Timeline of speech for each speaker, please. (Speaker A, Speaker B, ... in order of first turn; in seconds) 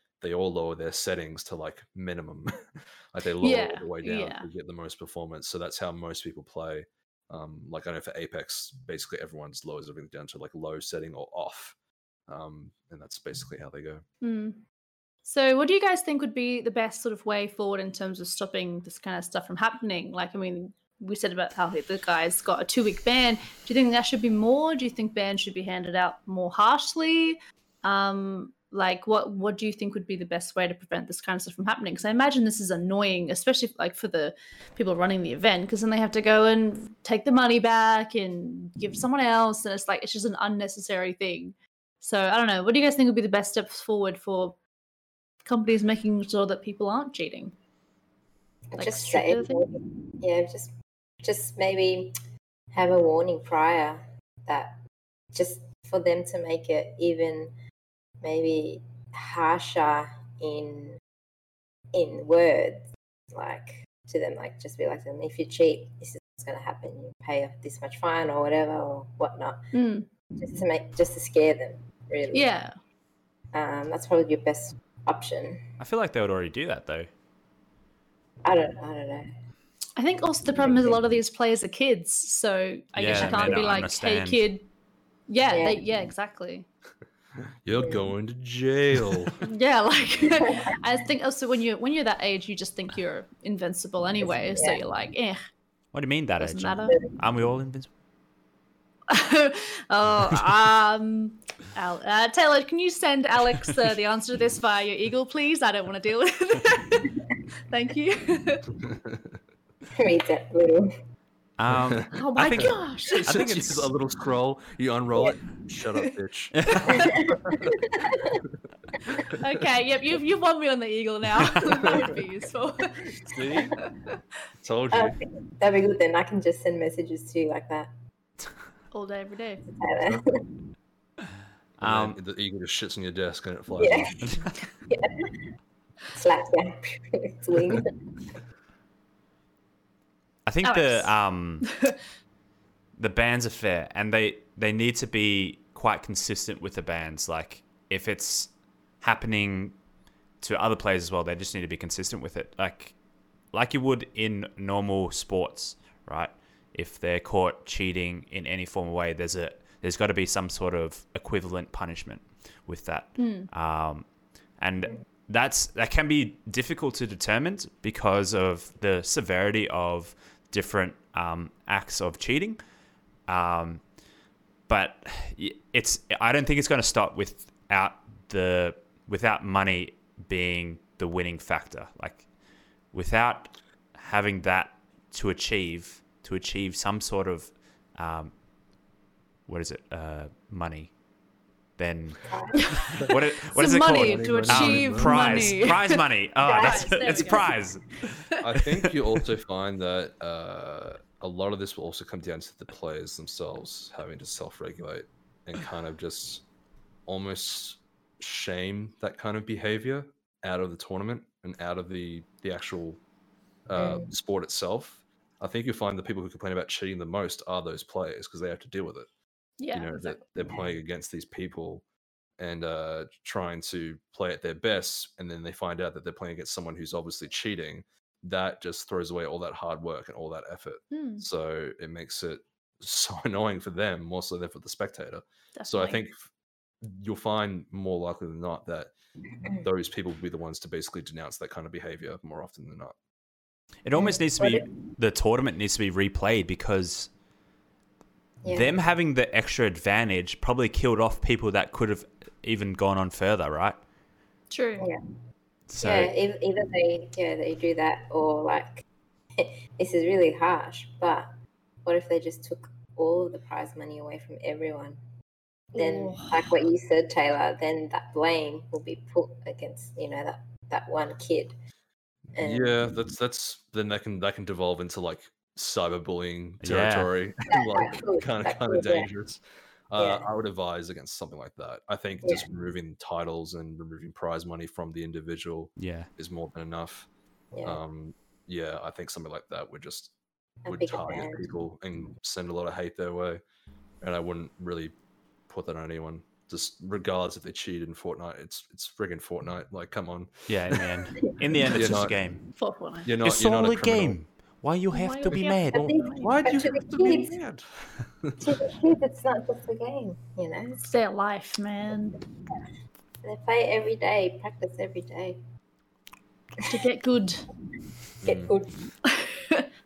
Speaker A: 0.2-11.8, 12.3-14.0, 83.2-83.6, 87.6-89.4, 108.8-109.3, 111.7-117.7, 121.8-122.1, 123.2-123.8, 124.6-125.2, 131.8-134.4, 193.8-195.5, 198.4-206.4, 207.1-213.0, 213.7-219.1, 219.7-221.8, 222.4-236.2, 236.8-238.9, 239.6-242.9, 272.4-287.1, 287.6-290.1, 290.6-293.4, 294.0-294.9, 295.5-300.8, 301.7-302.2, 303.0-304.2, 305.3-307.7, 318.2-318.5
Speaker B: 3.4-4.5, 14.2-14.6, 15.2-44.6, 45.4-47.5, 48.8-49.6, 69.7-70.1, 72.3-72.7, 80.0-84.7, 85.3-86.7, 89.4-95.4, 96.4-97.0, 99.1-107.1, 107.7-108.7, 112.1-113.2, 116.8-117.0, 119.4-123.1, 128.9-129.7, 140.6-142.0, 163.2-163.5, 192.6-197.5, 219.6-220.2, 230.9-231.2, 235.6-236.0, 254.5-254.9, 265.8-266.3, 302.6-303.1, 304.9-306.3, 310.9-312.2, 316.7-317.4, 319.1-319.7
Speaker C: 48.7-52.1, 52.7-54.8, 55.3-57.5, 58.2-61.0, 61.9-69.6, 70.4-72.5, 73.5-75.6, 78.4-79.3, 80.5-81.1, 85.5-85.8, 87.7-88.1, 94.2-94.8, 110.0-110.9, 117.0-118.4, 124.9-127.9, 129.7-130.4, 133.7-134.2, 134.9-135.4, 136.1-138.4, 192.3-192.6, 213.8-214.1, 220.4-220.8, 243.9-244.7, 248.4-248.8, 255.8-258.8, 259.4-261.3, 261.8-265.0, 265.7-271.5, 272.4-272.9, 277.5-279.1, 280.0-280.2, 287.5-287.8, 290.6-291.4, 305.7-307.4, 308.4-310.9, 312.2-312.6, 313.2-315.4, 318.2-318.9
Speaker D: 75.8-77.1, 83.0-84.4, 95.9-97.9, 111.6-113.9, 131.8-132.2, 140.4-141.7, 143.0-149.8, 150.4-153.0, 153.5-172.6, 173.3-173.9, 174.7-182.2, 182.9-188.3, 189.5-191.0, 191.8-198.1, 243.8-247.1, 248.5-253.8, 255.7-256.1, 276.6-277.1, 285.8-286.1, 300.5-302.4, 303.2-305.9